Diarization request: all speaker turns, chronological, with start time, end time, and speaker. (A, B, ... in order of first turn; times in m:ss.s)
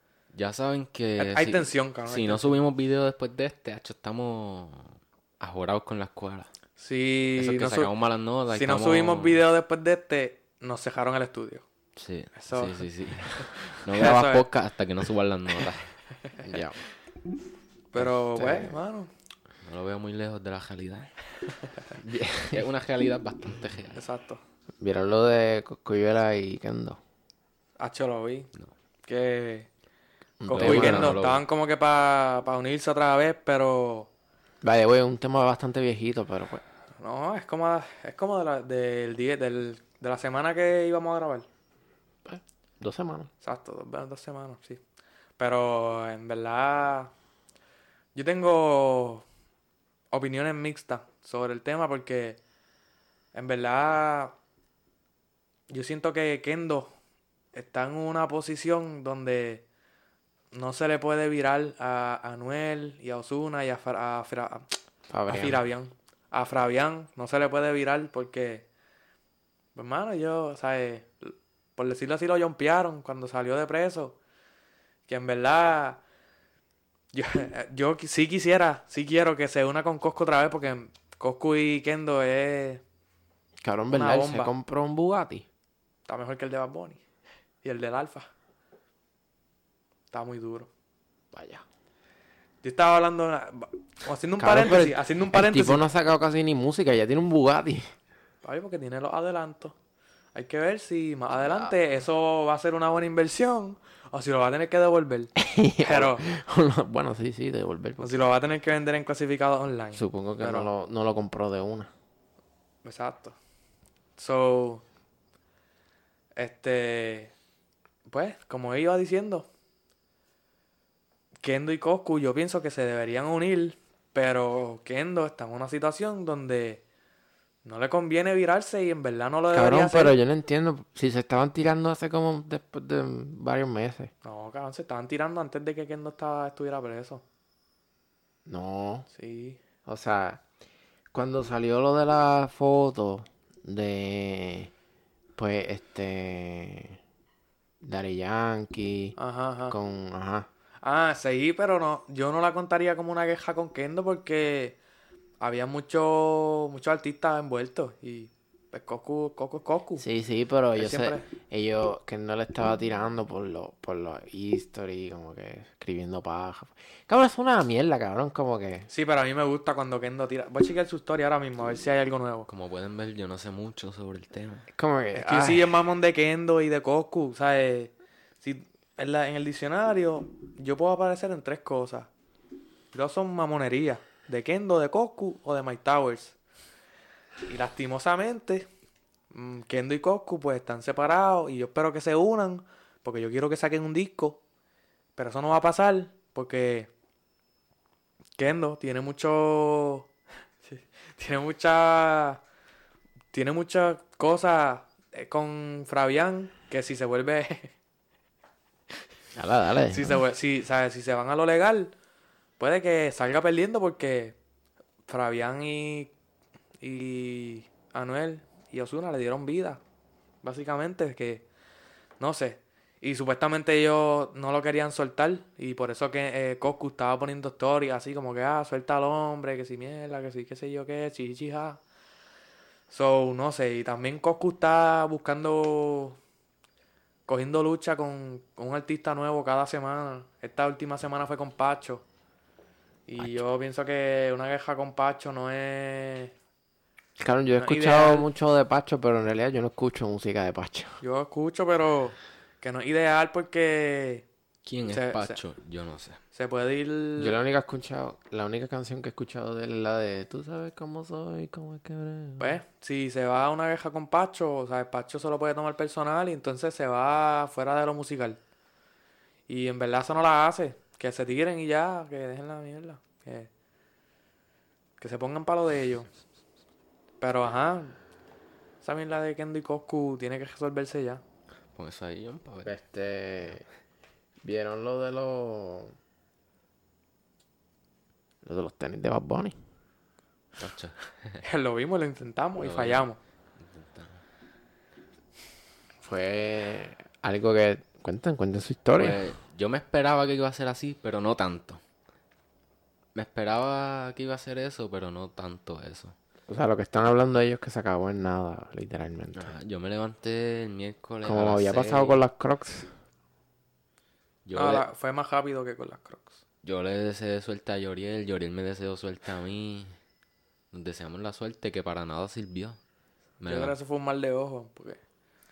0:00.3-0:06.5 A
0:01.2-0:02.5 B
0:06.8-0:07.9 B
0:07.4-0:09.4 A
0:08.5-0:11.6 B
0:12.0-0:15.9 A
0:12.4-0:14.4 B
0:16.4-0:16.8 C
0:17.9-0:19.1 B
0:18.0-0:18.8 C
0:19.6-0:21.1 A
0:22.0-0:22.6 C
0:22.5-0:24.0 A
0:24.0-0:24.4 B
0:24.8-0:27.0 C
0:27.8-0:28.5 B
0:29.0-0:29.7 B
0:30.4-0:31.2 C
0:30.4-0:34.1 B
0:30.5-0:31.4 A
0:34.6-0:36.6 C
0:37.0-0:41.4 B
0:42.2-0:43.3 C
0:43.4-0:44.8 B
0:45.4-0:47.1 B
0:48.1-0:49.2 B
0:50.1-0:52.4 B
0:53.3-0:54.3 B
0:55.7-0:56.9 B
0:57.5-0:59.6 B
1:00.5-1:04.7 B
1:05.1-1:05.6 C
1:05.3-1:08.6 B
1:09.7-1:14.2 B
1:15.1-1:16.0 B
1:17.1-1:22.8 B
1:23.6-1:25.4 C
1:23.9-1:24.5 B
1:26.1-1:27.0 B
1:27.6-1:28.3 B
1:30.1-1:30.7 B
1:31.3-1:31.6 C
1:32.6-1:35.8 B
1:34.4-1:37.9 C
1:38.4-1:39.7 B
1:40.3-1:46.2 B
1:41.3-1:41.8 C
1:45.4-1:48.2 C
1:48.0-1:50.7 B
1:49.9-1:51.9 C
1:52.8-1:53.4 B
1:54.2-1:54.8 B
1:56.4-1:57.3 B
1:58.1-1:59.4 B
2:01.4-2:06.8 B
2:07.6-2:10.1 B
2:09.5-2:14.1 C
2:14.2-2:17.2 B
2:18.4-2:19.1 C
2:19.1-2:19.6 B
2:19.8-2:20.4 C
2:21.1-2:24.7 C
2:25.4-2:27.0 C
2:27.8-2:29.2 C
2:29.2-2:29.8 B
2:29.7-2:30.5 C
2:30.8-2:34.8 B
2:35.4-2:40.0 B
2:40.0-2:48.9 C
2:40.8-2:41.2 B
2:48.9-2:52.5 B
2:52.5-2:54.7 A
2:54.7-2:55.8 C
2:55.1-3:02.1 B
3:02.9-3:06.4 B
3:07.5-3:08.7 B
3:09.3-3:14.4 B
3:15.2-3:16.9 B
3:18.4-3:20.1 B
3:20.6-3:22.4 B
3:23.3-3:27.7 B
3:29.3-3:30.2 C
3:29.9-3:31.9 B
3:32.6-3:34.4 B
3:35.1-3:36.1 B
3:36.8-3:39.8 B
3:40.4-3:41.4 B
3:42.2-3:51.8 B
3:52.9-3:56.2 B
3:57.3-4:02.0 B
4:03.1-4:06.3 B
4:07.2-4:11.0 C
4:07.6-4:08.3 B
4:11.0-4:14.2 B
4:14.6-4:16.2 A
4:14.9-4:15.4 B
4:16.3-4:17.3 B
4:17.2-4:22.6 C
4:22.4-4:28.4 B
4:29.5-4:33.5 B
4:35.0-4:36.1 B
4:37.2-4:38.0 B
4:38.8-4:41.2 B
4:41.7-4:42.7 A
4:42.6-4:43.6 C
4:44.4-4:45.9 C
4:48.4-4:49.5 C
4:50.6-4:51.4 A
4:51.4-4:53.2 B
4:52.6-4:53.0 A
4:53.6-4:54.2 A
4:56.0-4:59.2 C
4:59.0-5:01.8 A
5:03.1-5:06.2 A
5:06.5-5:09.5 C
5:09.3-5:12.2 A
5:11.2-5:12.9 C
5:14.4-5:14.8 A
5:14.5-5:16.4 B
5:16.6-5:19.9 A
5:20.7-5:22.8 A
5:23.4-5:23.8 A
5:23.4-5:25.0 B